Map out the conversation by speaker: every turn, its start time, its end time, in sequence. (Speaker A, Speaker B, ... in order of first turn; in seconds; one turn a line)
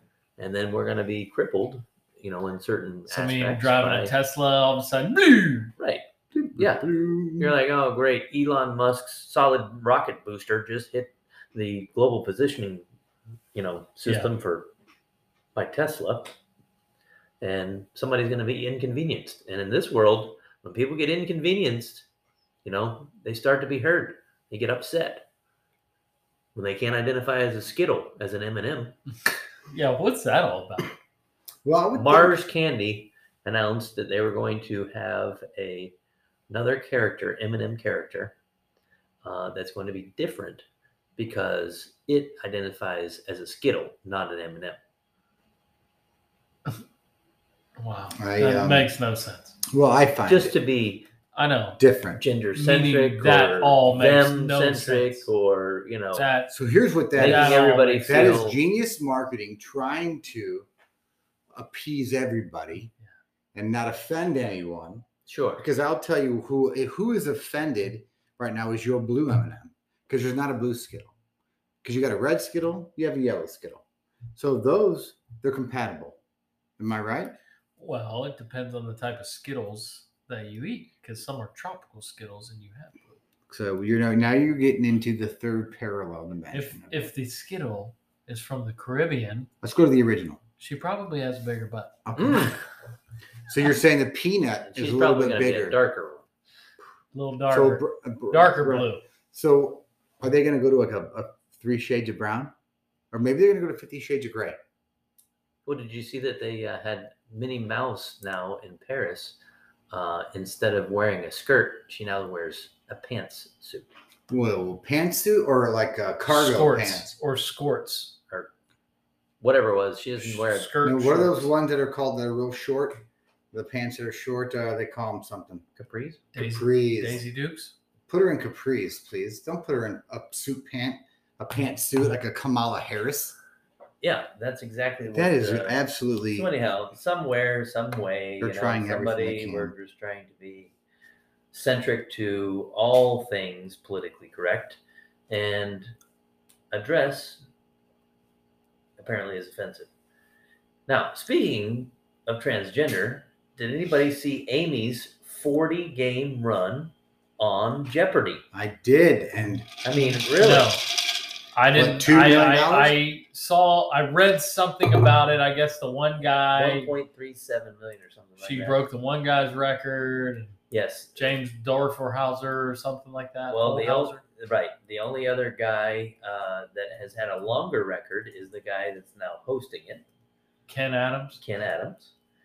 Speaker A: 0.4-4.1
Speaker B: 3.1-5.7
Speaker A: 5.8-6.0
Speaker C: 6.3-7.6
Speaker A: 6.5-12.8
Speaker A: 13.5-14.7
Speaker B: 14.0-14.3
Speaker A: 15.5-16.4
Speaker A: 17.4-22.1
Speaker A: 22.6-25.2
Speaker A: 26.5-28.9
Speaker B: 29.7-30.9
Speaker C: 31.6-32.4
Speaker A: 31.9-35.9
Speaker A: 36.5-38.3
Speaker A: 39.2-40.6
Speaker A: 41.2-44.8
Speaker B: 47.8-49.5
Speaker C: 48.2-48.9
Speaker C: 49.7-50.6
Speaker A: 50.2-51.1
Speaker B: 51.3-51.8
Speaker C: 51.8-52.2
Speaker A: 52.2-56.3
Speaker B: 52.5-55.3
Speaker B: 56.1-56.5
Speaker C: 56.5-60.7
Speaker A: 57.1-58.6
Speaker B: 57.2-58.4
Speaker C: 61.5-62.9
Speaker C: 63.5-65.0
Speaker A: 65.3-65.7
Speaker C: 65.6-71.1
Speaker C: 71.8-73.8
Speaker C: 74.3-76.2
Speaker C: 76.8-77.4
Speaker B: 77.8-83.2
Speaker C: 83.5-87.1
Speaker B: 86.5-89.5
Speaker C: 89.6-90.4
Speaker B: 90.6-92.0
Speaker C: 92.0-92.6
Speaker A: 92.2-92.6
Speaker C: 93.5-95.8
Speaker A: 94.7-96.3
Speaker B: 97.1-99.0
Speaker C: 97.5-102.5
Speaker C: 103.1-104.6
Speaker A: 105.7-109.4
Speaker A: 109.9-113.9
Speaker C: 114.3-117.1
Speaker B: 116.2-118.1
Speaker A: 119.4-120.7
Speaker B: 120.2-121.5
Speaker C: 120.8-125.6
Speaker A: 125.8-126.3
Speaker C: 126.3-127.2
Speaker B: 126.3-127.7
Speaker C: 128.1-133.4
Speaker A: 134.0-135.8
Speaker C: 135.1-136.5
Speaker A: 136.3-140.7
Speaker C: 138.4-139.7
Speaker A: 141.5-145.9
Speaker A: 146.7-147.4
Speaker A: 149.0-149.9
Speaker A: 150.9-158.4
Speaker C: 158.5-159.7
Speaker A: 159.8-160.8
Speaker B: 160.3-160.9
Speaker B: 161.5-166.9
Speaker C: 161.7-163.0
Speaker A: 166.5-168.8
Speaker B: 168.4-170.6
Speaker A: 170.7-171.4
Speaker B: 171.1-174.2
Speaker A: 173.5-180.0
Speaker B: 180.7-181.4
Speaker A: 181.4-182.1